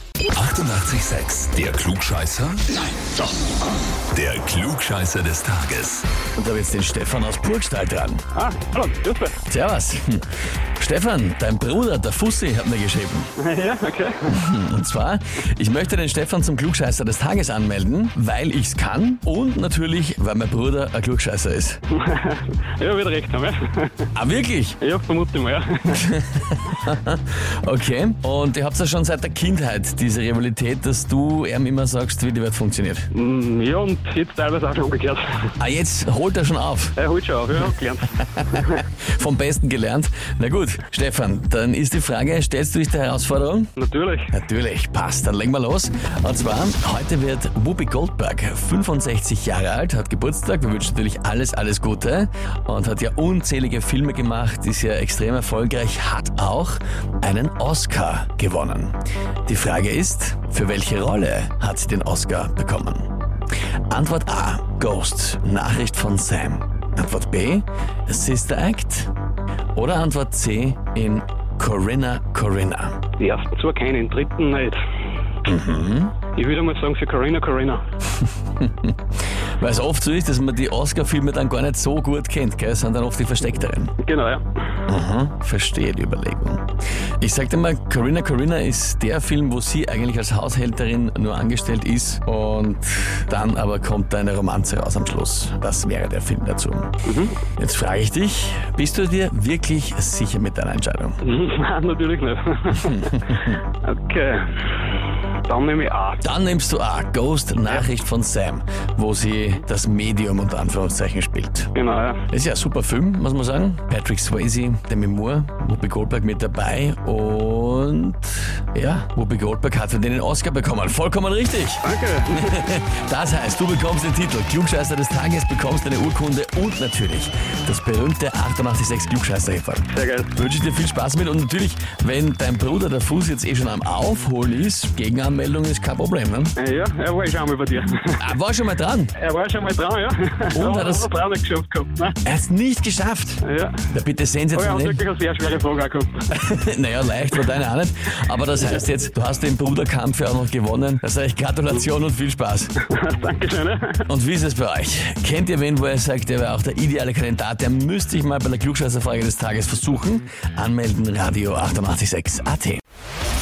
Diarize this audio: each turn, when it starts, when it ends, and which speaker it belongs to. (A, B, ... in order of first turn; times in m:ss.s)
0:00.3-0:02.8 A
0:04.1-0:06.1 A
0:06.4-0:08.2 B
0:08.3-0:09.4 C
0:09.5-0:10.2 B
0:10.8-0:13.3 B
0:13.4-0:14.4 C
0:14.3-0:21.8 B
0:21.9-0:24.1 C
0:24.2-0:24.8 B
0:24.8-0:26.1 C
0:26.0-0:33.1 B
0:33.1-0:35.5 C
0:35.6-0:37.0 B
0:37.0-0:38.8 C
0:38.5-0:43.7 B
0:43.8-0:44.3 C
0:44.3-0:59.0 B
0:59.5-1:03.1 B
1:03.9-1:09.1 B
1:09.8-1:13.0 B
1:13.2-1:14.8 C
1:15.5-1:16.1 B
1:16.3-1:17.8 C
1:18.6-1:19.0 B
1:19.6-1:24.0 B
1:24.0-1:24.6 C
1:24.9-1:26.7 B
1:27.2-1:36.9 B
1:37.0-1:37.4 C
1:37.6-1:41.2 B
1:41.2-1:44.7 C
1:42.8-1:43.6 B
1:45.4-1:46.2 C
1:46.2-1:51.7 B
1:51.8-1:52.2 C
1:52.3-2:01.8 B
2:01.8-2:02.6 C
2:02.3-2:16.5 B
2:09.9-2:10.3 C
2:16.6-2:18.3 C
2:18.2-2:19.1 B
2:19.2-2:22.2 C
2:20.5-2:21.1 B
2:22.2-2:25.0 B
2:23.4-2:23.8 C
2:24.5-2:26.3 C
2:26.4-2:32.7 B
2:32.8-2:34.1 C
2:34.1-2:42.8 B